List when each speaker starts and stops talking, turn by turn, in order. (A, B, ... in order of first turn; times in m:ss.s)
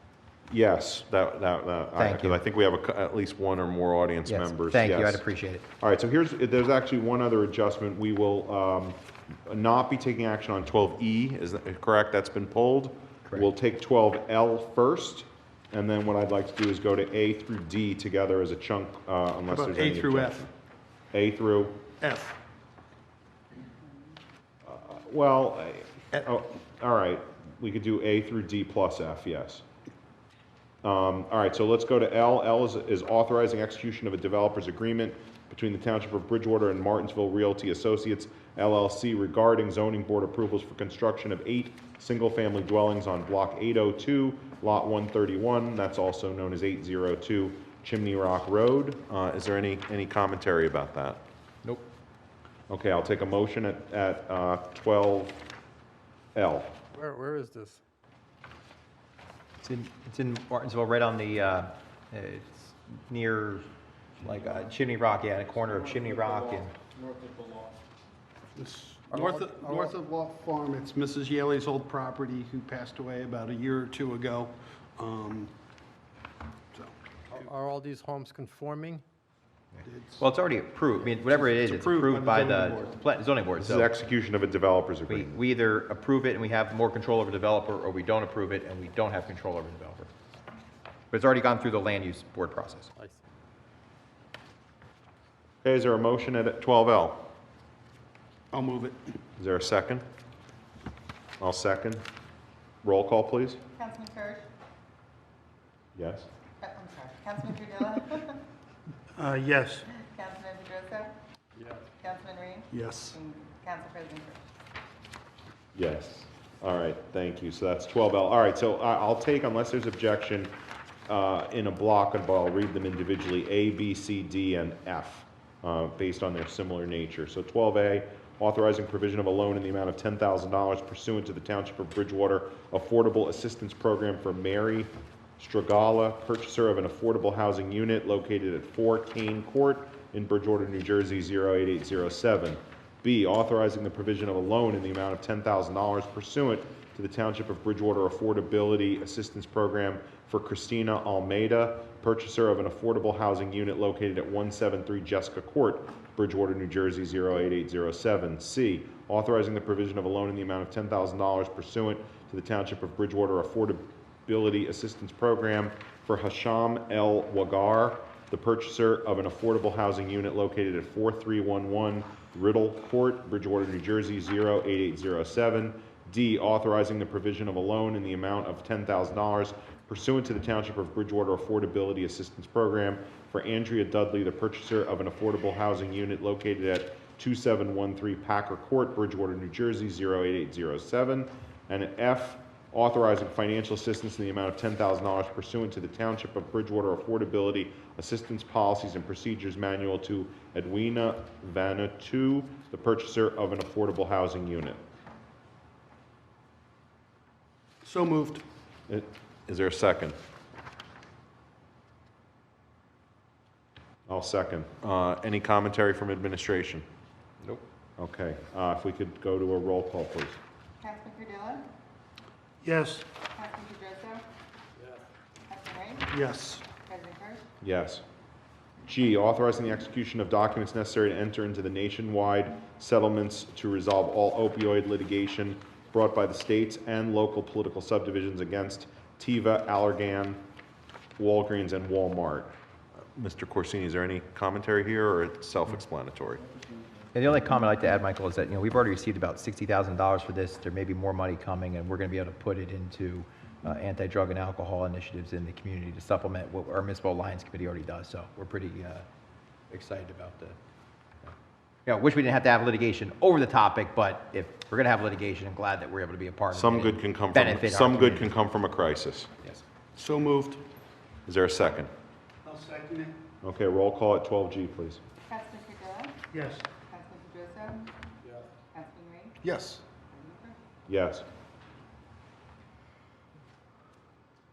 0:00.5-0:05.2 A
0:02.0-0:02.4 B
0:04.3-0:05.6 B
0:05.8-0:20.5 A
0:19.5-0:20.4 C
0:21.1-0:21.8 A
0:22.0-0:22.4 C
0:24.6-0:29.6 A
0:30.8-0:51.2 A
0:51.6-0:51.9 B
0:52.7-0:55.5 A
0:56.4-0:56.8 A
0:56.9-0:57.8 D
0:59.6-1:03.7 B
1:04.2-1:06.8 B
1:06.8-1:07.6 D
1:08.6-1:15.5 C
1:09.1-1:09.9 D
1:17.3-1:19.0 D
1:19.8-1:20.2 C
1:20.2-1:23.9 B
1:21.0-1:22.9 C
1:23.6-1:25.4 A
1:25.1-1:30.1 B
1:31.1-1:32.9 B
1:35.6-1:37.3 A
1:38.5-1:39.1 C
1:39.4-1:40.1 A
1:41.4-1:42.0 A
1:42.8-1:43.6 A
1:43.8-1:44.5 E
1:46.0-1:46.3 A
1:46.6-1:48.4 E
1:49.2-1:49.9 C
1:49.9-1:51.2 E
1:52.0-1:54.4 E
1:52.7-1:53.2 C
1:55.8-2:00.5 A
2:01.1-3:24.8 A
3:27.8-3:28.4 C
3:28.9-3:30.2 A
3:34.1-3:36.9 A
3:38.0-3:40.4 A
3:40.8-3:41.7 E
3:42.6-3:43.1 C
3:43.3-3:44.2 E
3:45.5-3:46.2 E
3:46.1-3:46.6 C
3:46.8-3:47.4 E
3:47.6-3:48.0 A
3:48.8-4:00.4 A
4:01.2-4:02.5 A
4:03.2-4:06.4 A
4:07.1-4:19.1 B
4:19.7-4:20.6 B
4:21.9-4:28.3 B
4:26.5-4:29.3 A
4:30.0-4:30.6 C
4:31.3-4:31.9 A
4:32.4-4:33.2 C
4:33.4-4:35.0 A
4:35.3-4:36.2 E
4:36.3-4:36.6 C
4:36.8-4:37.9 E
4:38.7-4:39.4 E
4:39.4-4:39.8 C
4:40.1-4:40.6 E
4:40.9-4:41.3 A